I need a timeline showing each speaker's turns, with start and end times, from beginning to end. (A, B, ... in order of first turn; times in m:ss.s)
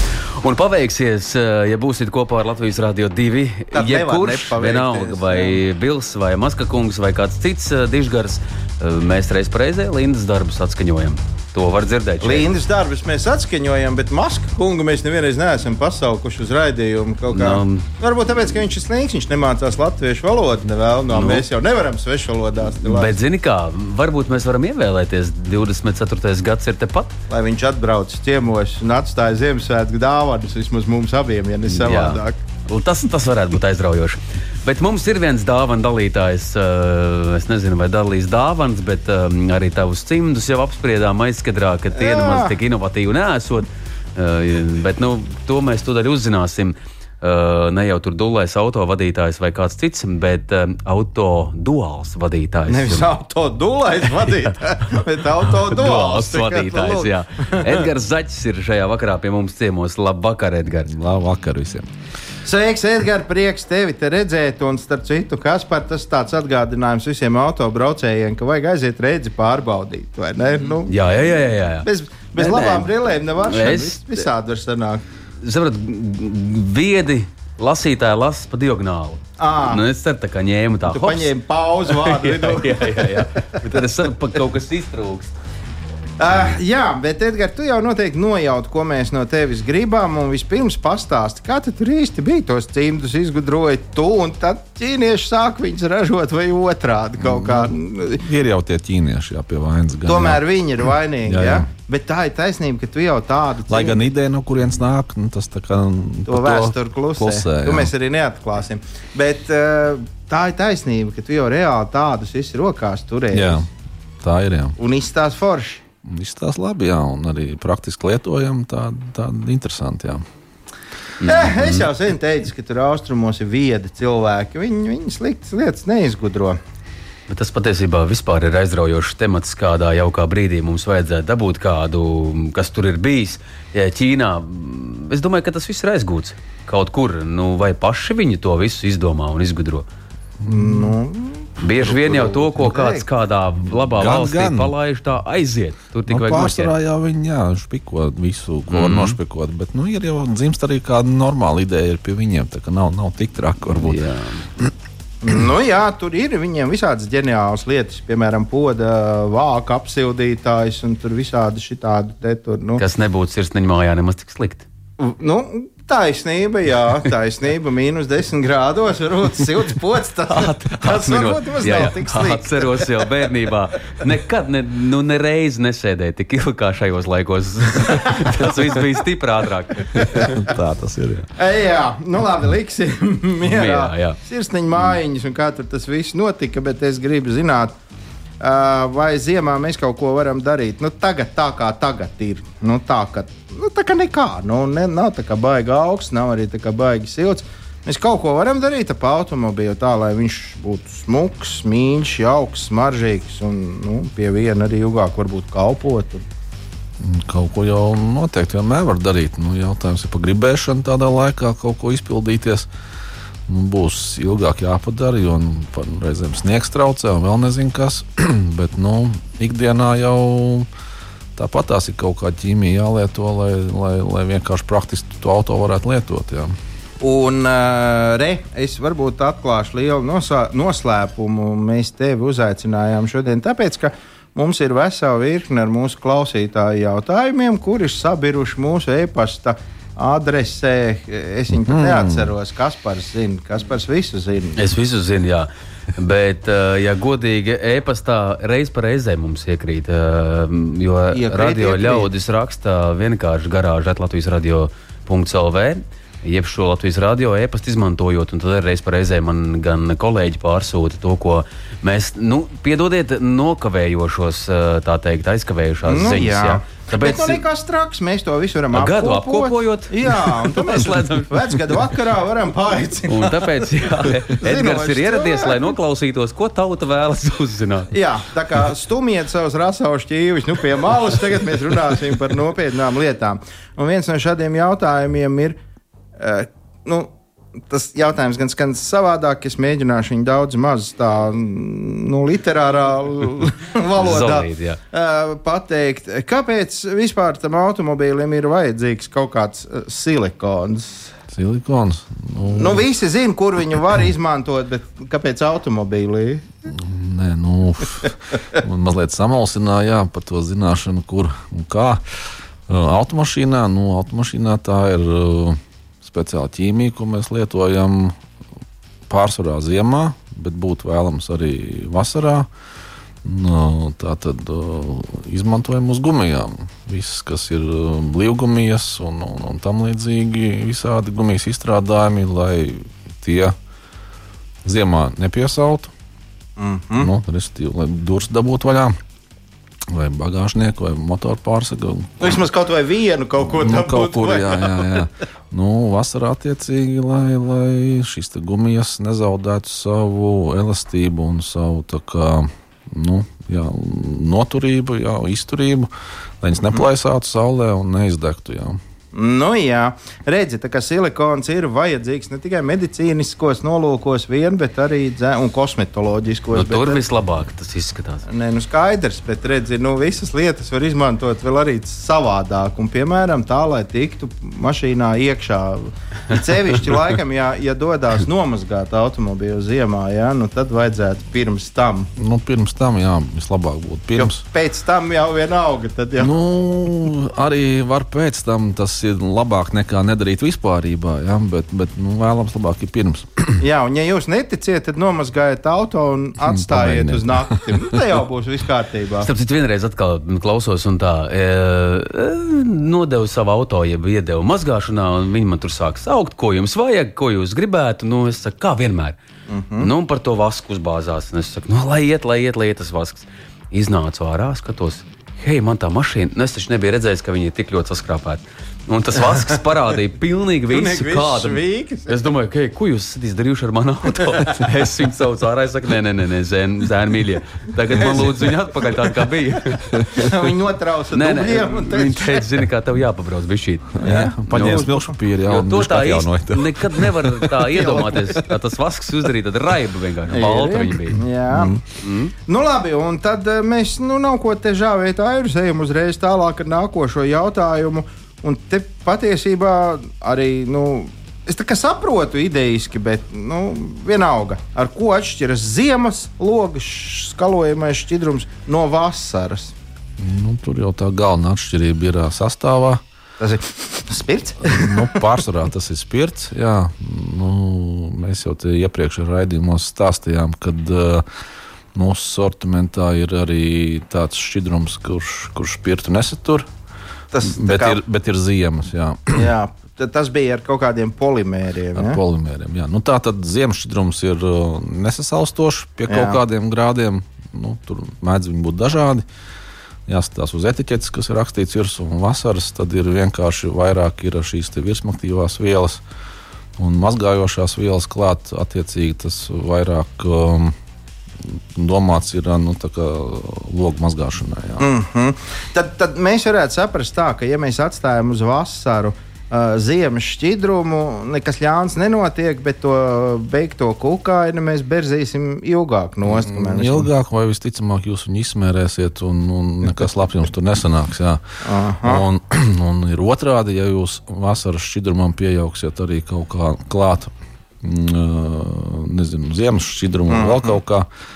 0:00.4-0:12.5 A
0:03.7-0:05.6 B
0:12.2-0:23.1 B
0:17.3-0:17.9 A
0:21.1-0:21.4 A
0:22.8-0:27.1 A
0:27.3-0:32.4 B
0:31.7-0:53.1 A
0:41.9-0:42.5 B
0:52.7-0:57.9 B
0:54.2-0:54.5 A
0:55.4-1:00.9 A
1:00.9-1:01.9 C
1:02.4-1:11.0 B
1:10.9-1:12.9 A
1:11.8-1:15.0 B
1:13.5-1:14.2 A
1:15.4-1:21.3 A
1:19.4-1:19.8 B
1:20.8-1:23.6 B
1:21.9-1:25.3 A
1:26.2-1:38.2 B
1:37.2-1:40.4 C
1:40.0-1:44.0 B
1:41.2-1:41.7 C
1:43.7-1:47.9 C
1:46.3-1:53.7 B
1:53.3-1:53.7 C
1:54.2-1:54.8 C
1:54.8-1:55.8 B
1:56.0-2:00.2 C
2:01.2-2:01.5 A
2:01.2-2:06.6 B
2:07.3-2:19.8 A
2:20.4-2:21.0 C
2:20.4-2:23.0 B
2:21.6-2:26.7 A
2:23.9-2:24.7 C
2:26.1-2:34.0 C
2:28.7-2:29.2 A
2:33.7-2:34.4 A
2:35.2-2:42.8 B
2:42.8-2:44.6 A
2:45.0-2:53.3 B
2:50.3-3:00.4 A
2:57.9-2:58.5 B
2:59.9-3:01.3 C
3:01.4-3:07.8 B
3:03.4-3:04.2 A
3:08.4-3:26.2 B
3:27.0-3:32.7 C
3:33.5-3:40.7 C
3:41.4-3:46.5 C
3:47.0-4:04.6 B
4:01.5-4:02.3 C
4:04.6-4:27.4 A
4:11.1-4:12.1 B
4:25.8-4:35.7 B
4:28.7-4:31.9 A
4:33.1-4:37.9 A
4:37.9-4:45.6 B
4:46.2-4:47.1 B
4:47.7-5:01.1 B
4:54.0-4:54.8 A
5:01.3-5:02.8 C
5:02.5-5:06.5 B
5:06.7-5:18.2 C
5:19.1-5:22.5 C
5:23.2-5:33.6 C
5:34.6-5:35.9 C
5:36.6-5:37.1 B
5:37.0-5:38.9 C
5:39.9-5:42.4 C
5:42.2-5:45.1 B
5:43.5-5:55.9 C
5:56.4-5:58.8 C
5:59.1-6:07.0 B
6:06.5-6:08.2 A
6:08.3-6:22.1 B
6:22.2-6:24.4 C
6:24.2-6:26.3 B
6:26.2-6:33.6 C
6:33.6-6:39.3 B
6:36.4-6:38.0 C
6:39.2-6:49.2 A
6:49.5-6:49.9 B
6:49.8-7:10.0 A
7:00.7-7:02.2 B
7:09.9-7:10.3 C
7:10.1-7:12.6 B
7:11.1-7:14.9 A
7:14.0-7:17.6 C
7:14.0-7:15.1 B
7:15.4-7:21.2 A
7:17.7-7:18.3 B
7:20.3-7:21.8 B
7:21.5-7:21.8 C
7:22.0-7:22.3 A
7:22.5-7:39.7 B
7:40.2-7:43.0 C
7:43.4-7:45.2 B
7:44.6-7:51.2 C
7:51.9-7:56.7 C
7:57.3-7:58.0 B
7:57.5-7:59.5 C
7:59.3-8:02.2 B
8:01.9-8:09.2 C
8:06.1-8:06.4 B
8:10.1-8:16.0 C
8:16.8-8:20.7 C
8:21.4-8:24.9 C
8:24.8-8:37.1 B
8:36.3-8:41.4 C
8:41.6-8:42.2 B
8:42.0-8:51.1 C
8:50.3-8:50.8 B